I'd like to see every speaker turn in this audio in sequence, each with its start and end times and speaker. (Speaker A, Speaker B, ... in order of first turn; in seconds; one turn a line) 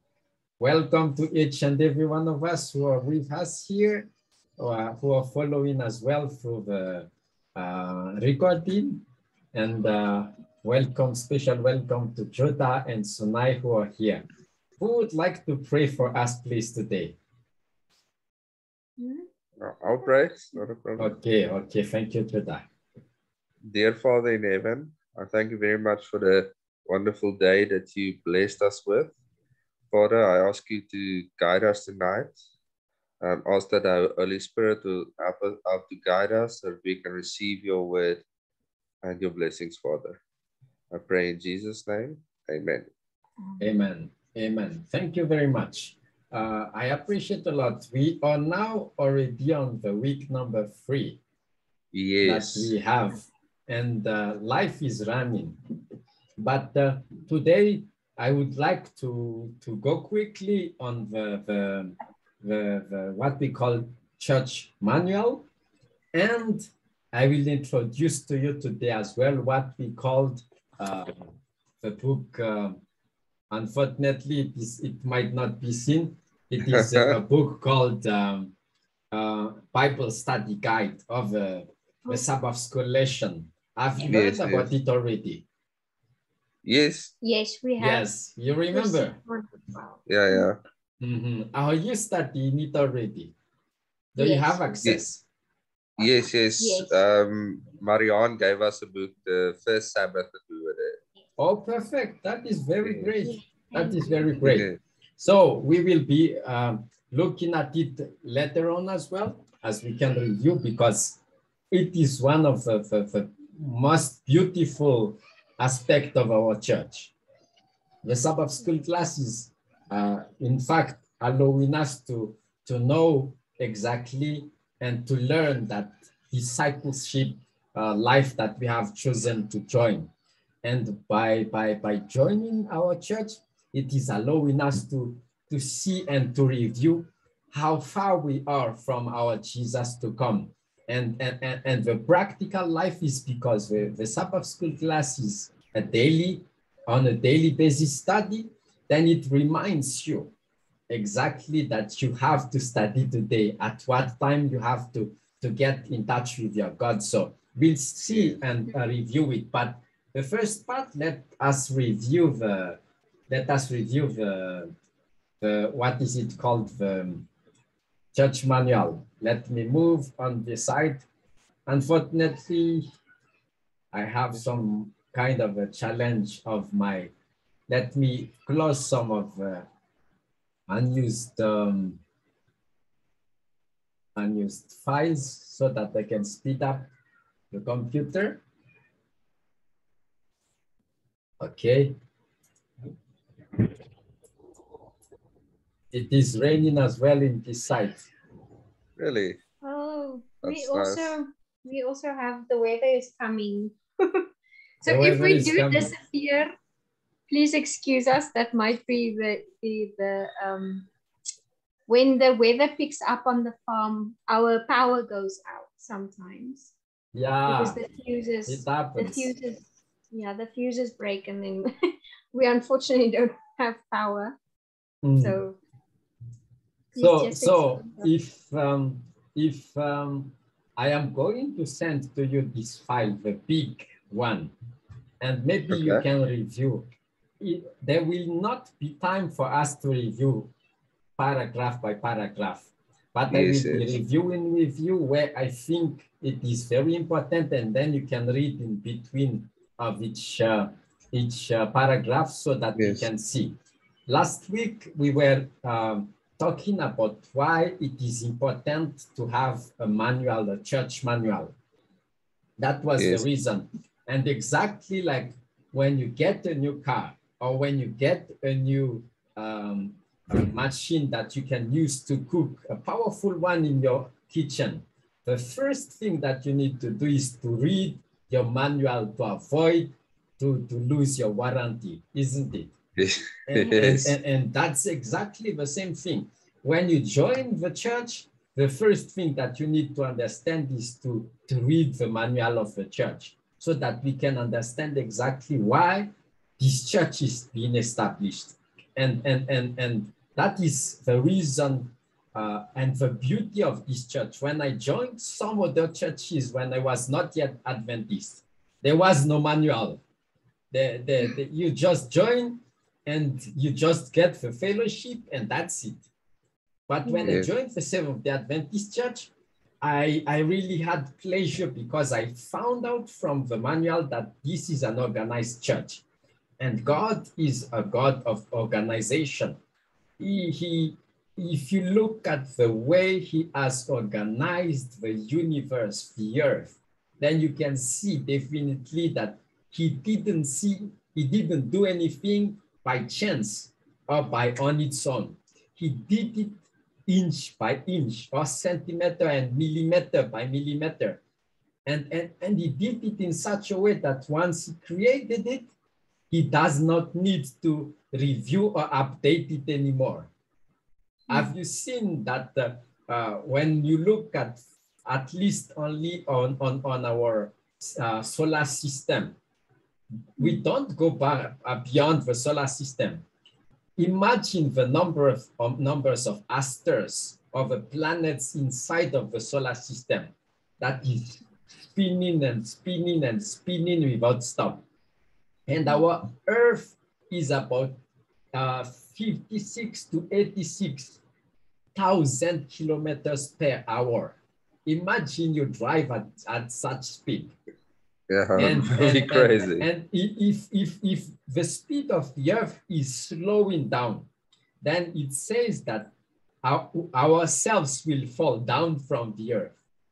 Speaker A: 0.6-9.0
Speaker A: 9.5-14.2
Speaker A: 14.8-17.2
Speaker B: 19.0-19.3
Speaker C: 19.6-21.1
Speaker A: 21.0-22.6
Speaker C: 23.6-29.1
Speaker C: 29.9-32.3
Speaker C: 33.2-38.2
Speaker C: 39.0-40.2
Speaker C: 40.9-42.9
Speaker A: 43.6-51.2
Speaker C: 51.9-52.7
Speaker A: 52.2-55.6
Speaker A: 56.4-65.5
Speaker A: 66.1-72.8
Speaker A: 73.5-78.5
Speaker C: 76.7-77.2
Speaker A: 79.1-85.4
Speaker C: 84.0-84.7
Speaker C: 86.6-87.1
Speaker B: 87.2-88.1
Speaker A: 87.8-89.2
Speaker B: 88.7-90.5
Speaker C: 90.0-90.6
Speaker A: 91.0-93.3
Speaker A: 94.1-95.2
Speaker B: 94.2-94.8
Speaker C: 96.0-101.0
Speaker B: 96.6-97.0
Speaker A: 101.4-111.2
Speaker C: 102.8-103.1
Speaker B: 103.2-104.3
Speaker C: 104.4-104.8
Speaker A: 111.7-117.1
Speaker A: 118.0-130.1
Speaker A: 130.6-150.3
Speaker A: 150.9-164.7
Speaker A: 165.4-167.3
Speaker A: 168.1-171.0
Speaker A: 171.7-172.9
Speaker A: 173.9-177.1
Speaker A: 177.7-179.7
Speaker A: 180.7-182.0
Speaker A: 184.2-186.9
Speaker A: 187.5-188.4
Speaker A: 191.4-191.9
Speaker A: 195.9-198.1
Speaker C: 199.0-199.4
Speaker B: 199.6-204.2
Speaker C: 200.4-201.2
Speaker B: 204.8-206.5
Speaker A: 204.8-205.9
Speaker B: 207.3-210.9
Speaker B: 211.9-216.7
Speaker A: 217.1-217.8
Speaker B: 217.4-221.7
Speaker A: 218.4-219.3
Speaker B: 222.3-224.4
Speaker A: 225.0-225.4
Speaker B: 225.2-225.6
Speaker B: 226.9-228.1
Speaker A: 227.0-234.5
Speaker A: 235.2-236.9
Speaker C: 235.7-236.0
Speaker A: 237.4-240.5
Speaker A: 241.2-253.5
Speaker C: 243.3-244.0
Speaker C: 252.8-253.0
Speaker A: 254.1-261.5
Speaker A: 262.6-282.7
Speaker C: 263.0-263.2
Speaker C: 283.0-284.1
Speaker A: 283.5-310.0
Speaker A: 310.7-316.0
Speaker A: 316.9-319.3
Speaker B: 317.1-317.3
Speaker A: 319.8-326.0
Speaker A: 326.6-329.6
Speaker A: 330.2-351.2
Speaker A: 351.9-355.7
Speaker A: 356.3-360.3
Speaker A: 361.3-369.3
Speaker A: 370.4-373.2
Speaker A: 374.0-384.8
Speaker A: 385.7-388.0
Speaker A: 388.5-391.2
Speaker A: 391.9-397.5
Speaker C: 398.3-399.9
Speaker A: 398.5-404.3
Speaker A: 404.8-406.1
Speaker A: 406.6-409.7